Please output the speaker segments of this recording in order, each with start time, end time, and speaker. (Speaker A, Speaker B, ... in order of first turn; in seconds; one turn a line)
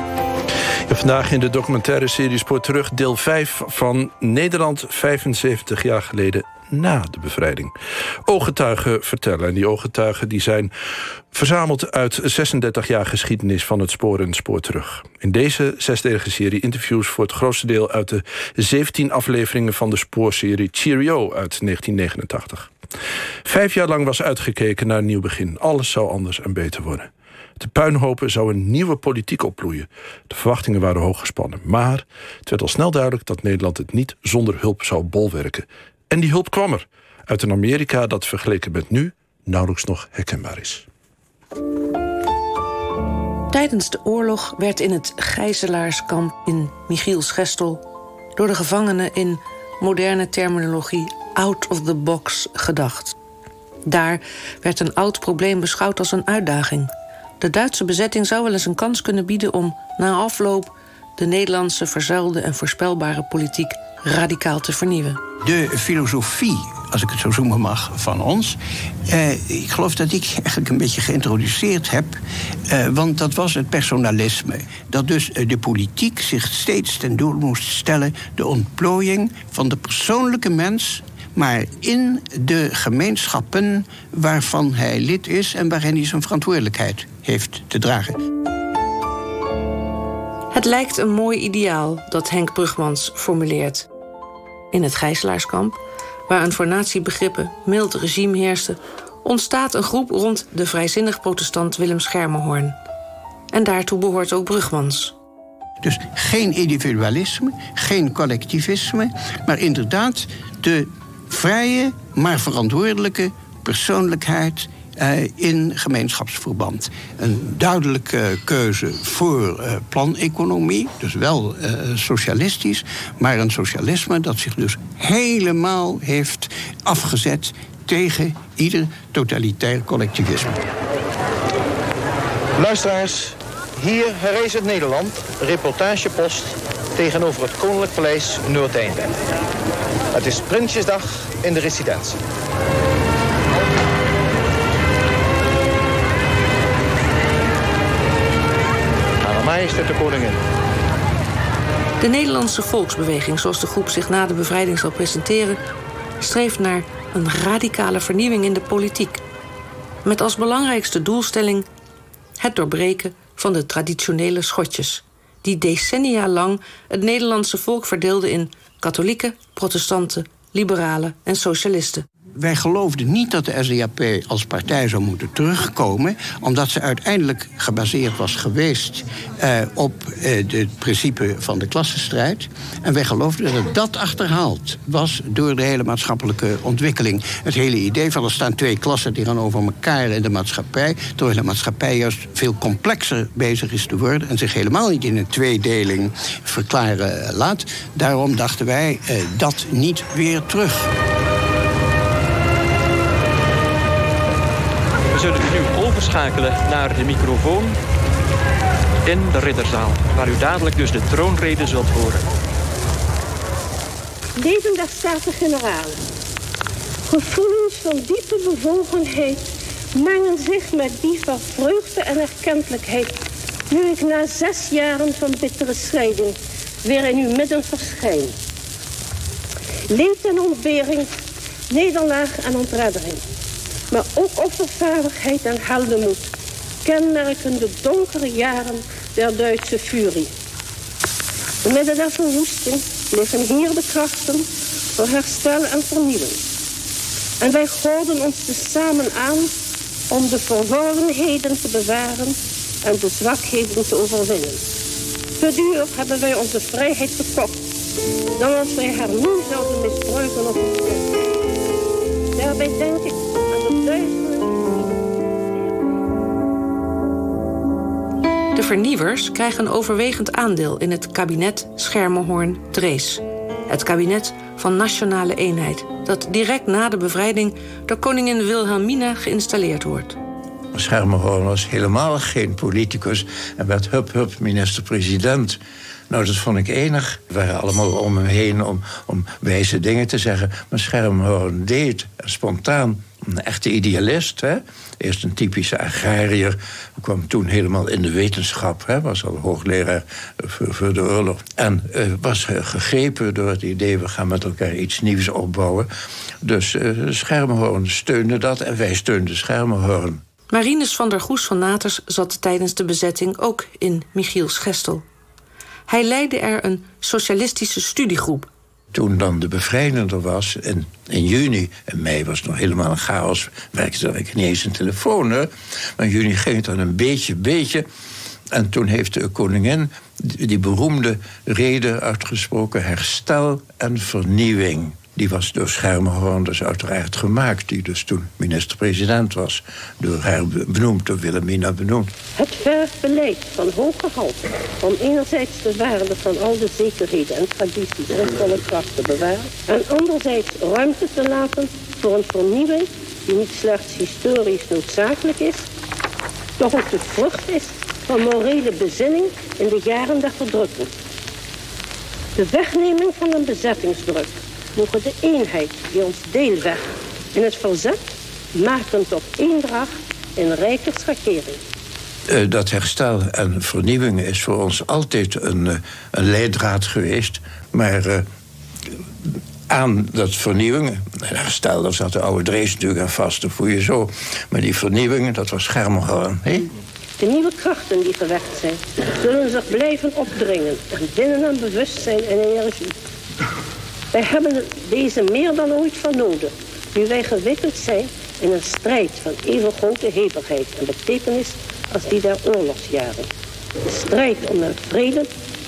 Speaker A: 0.9-7.7
Speaker A: 8.2-10.7
Speaker A: 11.3-22.7
Speaker A: 23.4-40.9
Speaker B: 43.5-47.8
Speaker B: 48.4-53.1
Speaker B: 53.9-65.2
Speaker C: 65.4-68.6
Speaker C: 69.1-72.2
Speaker C: 72.7-88.2
Speaker B: 90.5-93.9
Speaker B: 94.7-102.8
Speaker B: 103.5-105.1
Speaker C: 105.8-130.6
Speaker D: 132.6-139.1
Speaker D: 140.1-142.2
Speaker D: 149.2-150.4
Speaker B: 152.0-155.6
Speaker B: 156.2-159.2
Speaker B: 160.0-161.7
Speaker B: 162.4-172.1
Speaker C: 172.4-200.9
Speaker E: 205.1-207.8
Speaker E: 209.0-212.2
Speaker F: 214.3-216.0
Speaker F: 217.1-219.4
Speaker F: 219.9-223.1
Speaker F: 223.7-228.3
Speaker F: 229.9-231.1
Speaker F: 231.7-233.2
Speaker F: 233.9-236.3
Speaker F: 236.8-240.3
Speaker F: 241.6-244.4
Speaker F: 245.0-246.4
Speaker F: 247.4-249.5
Speaker F: 250.1-254.6
Speaker F: 255.4-257.5
Speaker F: 258.4-261.1
Speaker F: 262.4-264.8
Speaker B: 268.5-280.2
Speaker G: 280.7-305.9
Speaker G: 306.4-310.2
Speaker B: 310.5-315.0
Speaker B: 315.9-318.5
Speaker G: 318.9-327.8
Speaker G: 328.5-342.1
Speaker F: 342.4-355.7
Speaker F: 356.6-360.9
Speaker F: 362.4-371.6
Speaker G: 372.3-378.2
Speaker G: 379.7-386.7
Speaker F: 387.2-392.9
Speaker F: 394.1-403.3
Speaker F: 403.9-405.3